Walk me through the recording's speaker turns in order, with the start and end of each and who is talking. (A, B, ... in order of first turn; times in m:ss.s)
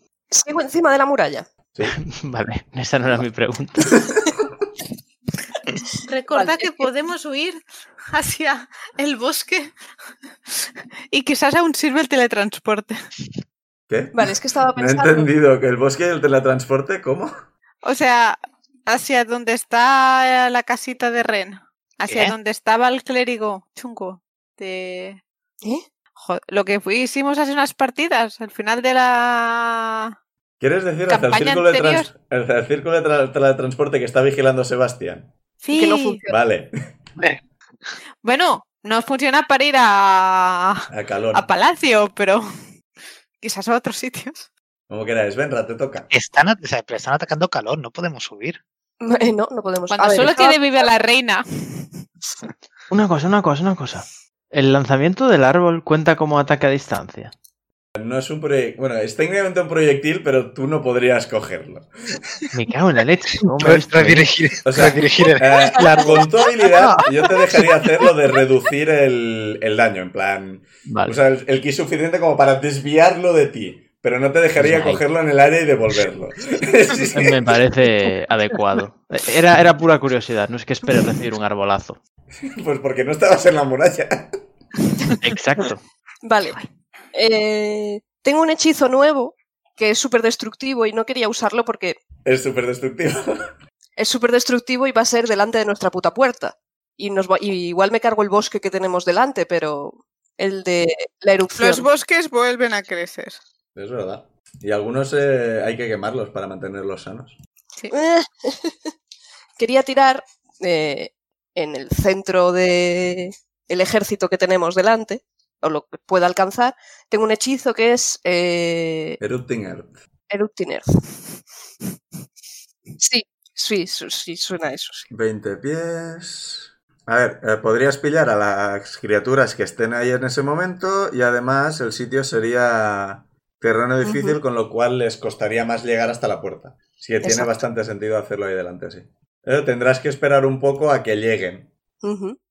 0:00.3-0:01.5 A
0:01.8-0:04.1 B
0:06.1-0:07.6 C
0:06.3-0:06.9 A
0:08.1-0:09.7 C
0:10.5-0:13.0 C
0:13.9-0:17.3 D
0:14.1-0:15.3 A
0:17.8-0:25.2 C
0:22.1-0:22.3 E
0:26.2-0:30.1 C
0:30.6-0:35.3 D
0:31.1-0:32.1 C
0:35.6-0:36.2 C
0:35.7-0:36.3 A
0:36.3-0:36.7 D
0:38.2-0:42.4 C
0:40.9-0:41.5 D
0:43.4-0:44.5 C
0:44.9-0:46.1 D
0:46.1-0:48.6 E
0:49.0-0:50.9 A
0:49.9-0:51.9 C
0:52.9-0:57.3 B
0:58.0-1:01.9 D
1:02.5-1:04.3 B
1:03.5-1:07.7 E
1:04.6-1:17.4 D
1:10.9-1:11.2 B
1:14.6-1:15.0 B
1:17.1-1:22.0 B
1:22.4-1:24.4 D
1:25.2-1:25.8 B
1:26.2-1:26.6 A
1:27.1-1:32.0 A
1:32.2-1:33.3 D
1:34.0-1:41.9 A
1:41.6-1:43.4 C
1:43.8-1:47.4 D
1:47.9-1:48.9 A
1:49.6-1:59.2 A
1:59.2-1:59.9 D
2:00.3-2:00.8 A
2:03.0-2:05.1 A
2:05.1-2:21.7 D
2:14.0-2:14.4 A
2:17.2-2:17.6 A
2:22.0-2:22.4 A